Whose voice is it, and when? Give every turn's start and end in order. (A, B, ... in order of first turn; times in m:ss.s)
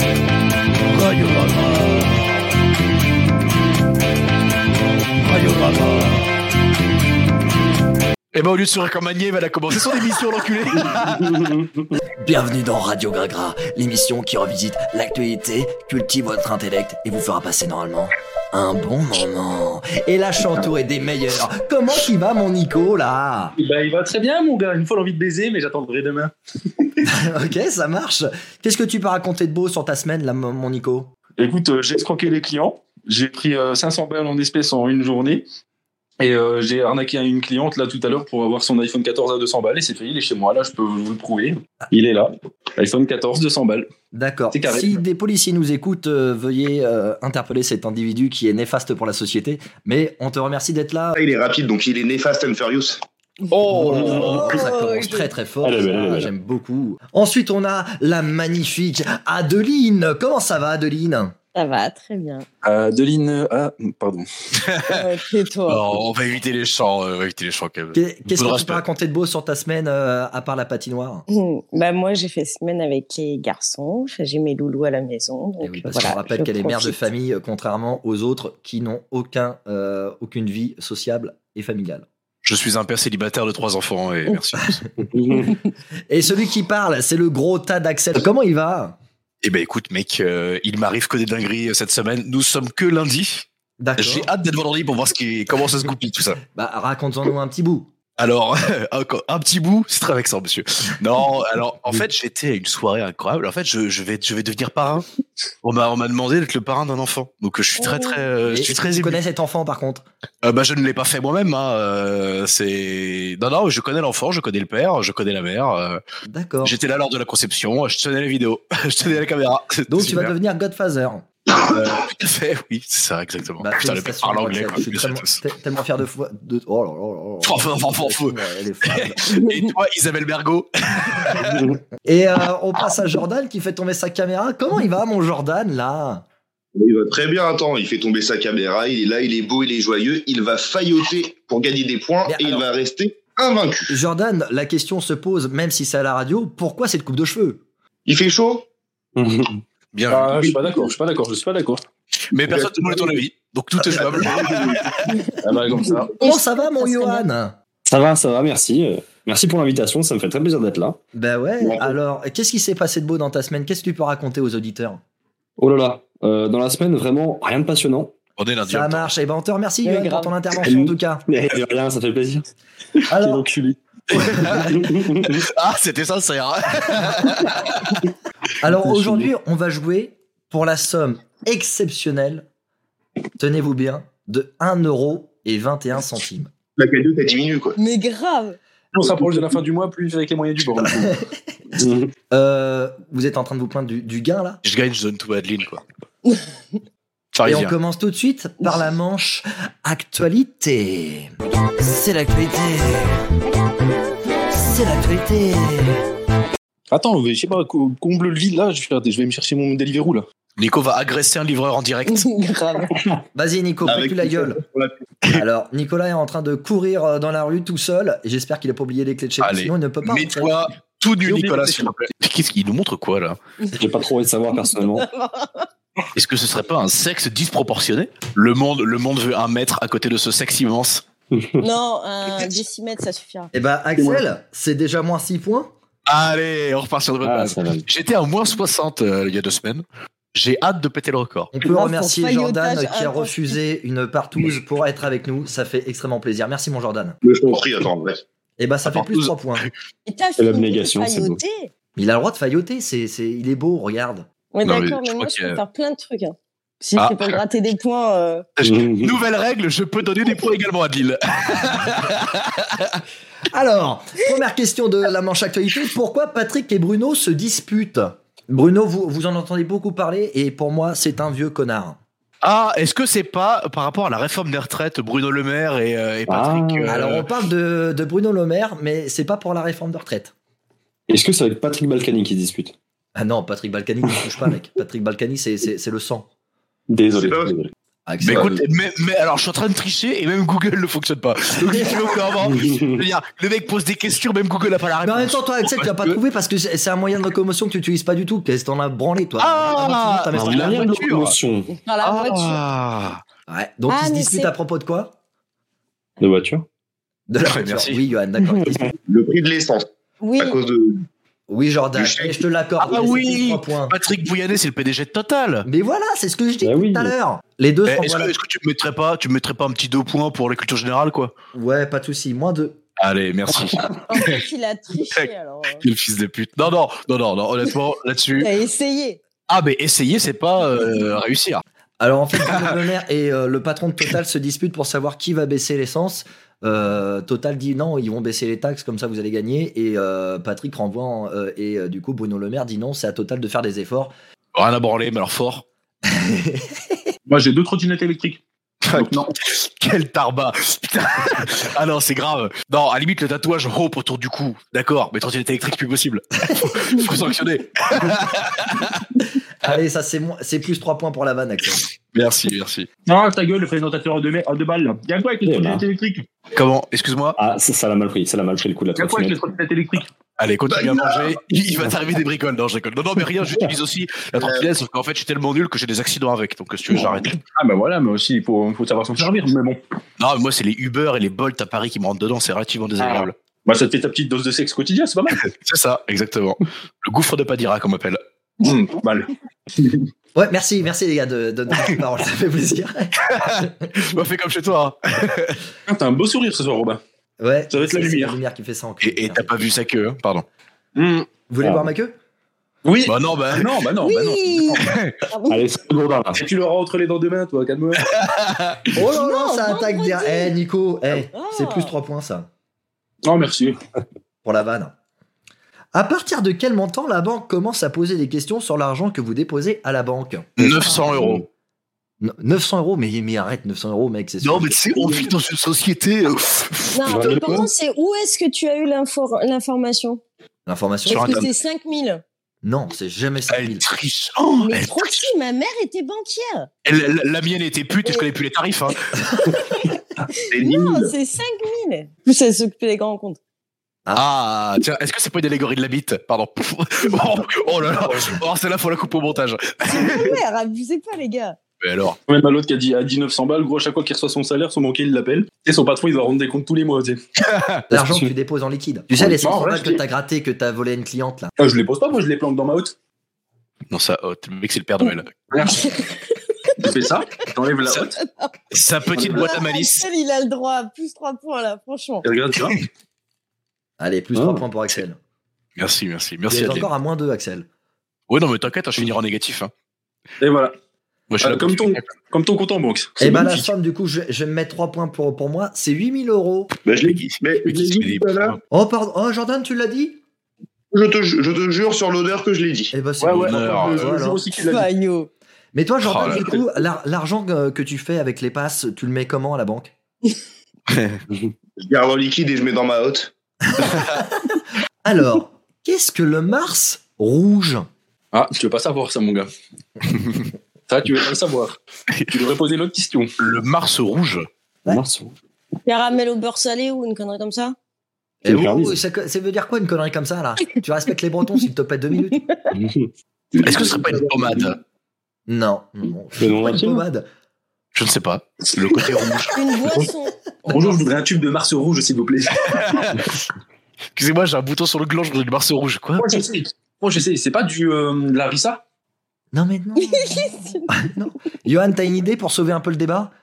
0:00.9-0:02.4 A
0:05.2-0:06.3 A
0:08.3-0:11.5 A
0:10.9-0:11.9 B
0:12.2-0:23.6 C
0:23.6-0:26.9 D
0:27.0-0:31.1 C
0:31.4-0:35.4 D
0:36.2-0:43.9 D
0:44.1-0:51.2 C
0:44.5-0:45.0 D
0:51.1-0:53.0 E
0:53.7-1:01.4 C
0:53.7-0:54.4 B
0:53.8-0:54.5 A
0:53.8-0:55.3 F
0:55.6-0:56.3 B
1:01.5-1:02.4 F
1:02.6-1:04.3 D
1:04.6-1:05.0 A
1:04.9-1:05.8 F
1:05.7-1:08.8 A
1:07.9-1:11.2 C
1:11.3-1:16.9 F
1:15.6-1:22.0 C
1:22.4-1:24.7 A
1:24.6-1:25.4 C
1:25.1-1:25.5 B
1:26.1-1:29.0 C
1:29.4-1:33.5 A
1:33.8-1:34.3 C
1:34.0-1:36.4 A
1:36.5-1:37.9 C
1:38.2-1:45.0 A
1:45.6-1:49.2 A
1:47.8-1:48.2 F
1:48.4-1:50.0 C
1:50.4-1:56.0 A
1:56.2-1:56.8 C
1:56.6-2:00.3 A
1:59.9-2:01.2 C
2:01.6-2:05.4 A
2:03.6-2:09.3 C
2:07.4-2:11.7 A
2:09.4-2:09.7 F
2:11.4-2:11.8 B
2:12.0-2:16.2 C
2:16.7-2:23.9 E
2:22.2-2:22.6 C
2:23.9-2:27.6 C
2:28.1-2:28.7 E
2:29.2-2:29.6 B
2:29.9-2:30.4 A
2:30.1-2:31.8 D
2:32.3-2:35.1 A
2:32.4-2:33.2 E
2:33.8-2:35.0 E
2:35.4-2:36.1 D
2:36.2-2:37.2 F
2:36.2-2:37.6 C
2:37.8-2:41.0 B
2:41.1-2:45.0 C
2:41.6-2:42.0 E
2:45.6-2:48.1 B
2:48.4-2:49.1 A
2:48.6-2:51.2 C
2:49.8-2:50.3 F
2:50.6-2:52.4 B
2:53.1-2:53.4 C
2:53.1-2:53.8 D
2:54.1-2:58.0 A
2:54.1-2:54.9 C
2:54.5-2:55.4 B
2:58.6-3:02.4 C
2:58.9-2:59.2 B
3:03.4-3:06.5 C
3:06.8-3:07.8 E
3:07.8-3:08.6 F
3:08.9-3:11.2 D
3:10.8-3:11.3 C
3:11.8-3:12.1 B
3:12.3-3:14.6 C
3:14.6-3:15.8 A
3:17.3-3:17.7 A
3:17.4-3:23.2 C
3:24.5-3:26.0 C
3:26.9-3:30.2 D
3:30.6-3:32.2 A
3:32.1-3:32.9 F
3:33.3-3:34.6 C
3:33.8-3:35.0 E
3:35.3-3:40.6 C
3:39.4-3:43.4 A
3:41.2-3:42.1 D
3:43.6-3:44.0 F
3:43.7-3:45.0 B
3:44.7-3:45.7 F
3:46.1-3:51.0 A
3:51.3-3:51.6 B
3:51.6-3:53.5 F
3:53.5-3:55.7 C
3:56.1-3:59.8 A
3:57.2-3:57.8 B
4:00.3-4:01.5 A
4:01.5-4:07.2 C
4:01.6-4:03.5 F
4:07.2-4:08.2 E
4:08.6-4:09.7 C
4:08.9-4:09.7 A
4:10.0-4:11.7 F
4:10.4-4:11.4 B
4:12.0-4:14.2 C
4:14.5-4:18.5 F
4:14.6-4:15.6 A
4:17.0-4:17.4 A
4:18.6-4:23.0 A
4:18.6-4:19.1 B
4:23.5-4:32.0 C
4:32.4-4:37.2 A
4:36.3-4:36.9 B
4:36.9-4:40.3 C
4:41.1-4:42.7 B
4:43.2-4:46.3 C
4:46.9-4:47.7 B
4:47.2-4:47.5 E
4:48.1-4:48.6 C
4:48.2-4:56.2 A
4:51.6-4:52.0 C
4:52.5-4:53.0 B
4:55.0-5:00.8 C
4:59.4-5:01.4 A
5:00.3-5:01.7 B
5:01.8-5:02.6 F
5:02.0-5:03.2 A
5:03.5-5:05.2 C
5:03.9-5:04.5 F
5:06.2-5:06.6 B
5:07.3-5:08.9 C
5:07.4-5:08.0 A
5:08.5-5:08.9 B
5:09.1-5:11.0 E
5:10.2-5:10.6 F
5:11.5-5:14.0 C
5:12.0-5:12.4 E
5:12.8-5:15.7 A
5:15.6-5:18.3 C
5:16.6-5:17.1 B
5:17.9-5:21.3 A
5:21.5-5:22.8 C
5:23.0-5:24.4 A
5:24.1-5:25.8 F
5:25.8-5:28.5 A
5:28.4-5:29.2 F
5:29.5-5:31.6 A
5:32.0-5:44.1 C
5:32.4-5:32.7 A
5:44.5-5:45.6 A
5:46.0-5:47.1 C
5:47.3-5:49.3 D
5:48.8-5:59.1 A
5:59.6-6:01.8 C
6:02.1-6:02.9 A
6:03.0-6:06.3 D
6:05.4-6:05.8 B
6:06.5-6:07.4 A
6:07.4-6:09.4 B
6:09.0-6:10.1 D
6:10.4-6:17.4 A
6:10.7-6:11.3 E
6:14.3-6:14.7 E
6:17.6-6:19.8 D
6:20.2-6:23.3 A
6:23.0-6:25.4 D
6:25.4-6:28.2 A
6:28.6-6:29.3 D
6:30.3-6:33.9 C
6:33.3-6:35.6 A
6:35.9-6:37.0 D
6:37.4-6:39.5 C
6:37.7-6:38.4 D
6:39.0-6:40.4 A
6:41.0-6:41.3 D
6:41.5-6:42.2 C
6:41.6-6:41.9 B
6:42.8-6:44.8 D
6:43.0-6:43.8 A
6:44.0-6:45.6 F
6:44.8-6:45.2 A
6:45.5-6:46.4 B
6:46.3-6:48.0 D
6:48.0-6:48.9 A
6:48.9-6:52.5 C
6:49.0-6:50.5 F
6:51.2-6:51.9 F
6:53.2-6:53.8 D
6:54.4-6:54.9 C
6:55.9-7:01.2 C
7:00.6-7:01.4 A
7:02.2-7:05.2 C
7:04.4-7:07.0 A
7:06.9-7:10.2 F
7:07.0-7:07.7 B
7:10.6-7:11.5 C
7:11.0-7:12.2 F
7:11.1-7:11.5 A
7:12.6-7:13.8 C
7:13.5-7:15.3 A
7:14.6-7:16.7 F
7:16.8-7:19.1 A
7:19.5-7:23.4 F
7:20.5-7:21.1 E
7:24.1-7:30.4 A
7:29.8-7:31.6 F
7:31.8-7:32.2 A
7:32.3-7:37.2 D
7:37.4-7:37.9 A
7:37.9-7:41.5 C
7:37.9-7:38.3 B
7:39.3-7:40.0 D
7:41.6-7:42.9 D
7:43.9-7:45.4 A
7:45.5-7:45.9 D
7:45.6-7:46.9 F
7:46.8-7:48.2 D
7:48.2-7:48.6 F
7:48.7-7:50.0 A
7:49.1-7:49.5 D
7:49.2-7:52.2 F
7:52.2-7:52.8 D
7:54.0-7:55.2 C
7:54.3-7:54.6 B
7:55.8-7:56.9 A
7:56.5-7:57.7 C
7:58.3-7:59.7 A
8:00.4-8:00.7 D
8:01.3-8:02.1 A
8:01.4-8:03.7 D
8:03.2-8:06.7 C
8:06.8-8:08.6 E
8:07.0-8:08.6 A
8:08.7-8:10.2 C
8:10.9-8:13.0 E
8:12.9-8:14.4 C
8:13.2-8:14.9 D
8:13.3-8:14.1 A
8:14.6-8:15.3 F
8:15.7-8:19.9 C
8:16.0-8:16.5 A
8:16.3-8:16.6 D
8:20.9-8:21.2 A
8:21.8-8:23.3 E
8:23.6-8:27.9 C
8:28.3-8:29.5 D
8:30.1-8:30.4 A
8:30.9-8:31.8 D
8:32.1-8:32.4 A
8:32.3-8:33.3 D
8:33.4-8:34.5 A
8:34.9-8:35.3 B
8:35.8-8:37.8 F
8:38.4-8:39.0 B
8:38.4-8:42.4 C
8:42.7-8:43.1 B
8:43.5-8:44.6 D
8:43.6-8:44.8 A
8:45.5-8:47.2 C
8:46.4-8:47.0 B
8:47.9-8:49.6 A
8:49.5-8:51.0 F
8:50.7-8:53.0 D
8:52.7-8:53.4 A
8:54.2-8:56.4 A
8:56.2-8:58.8 D
8:59.5-9:03.3 C
9:00.0-9:00.9 F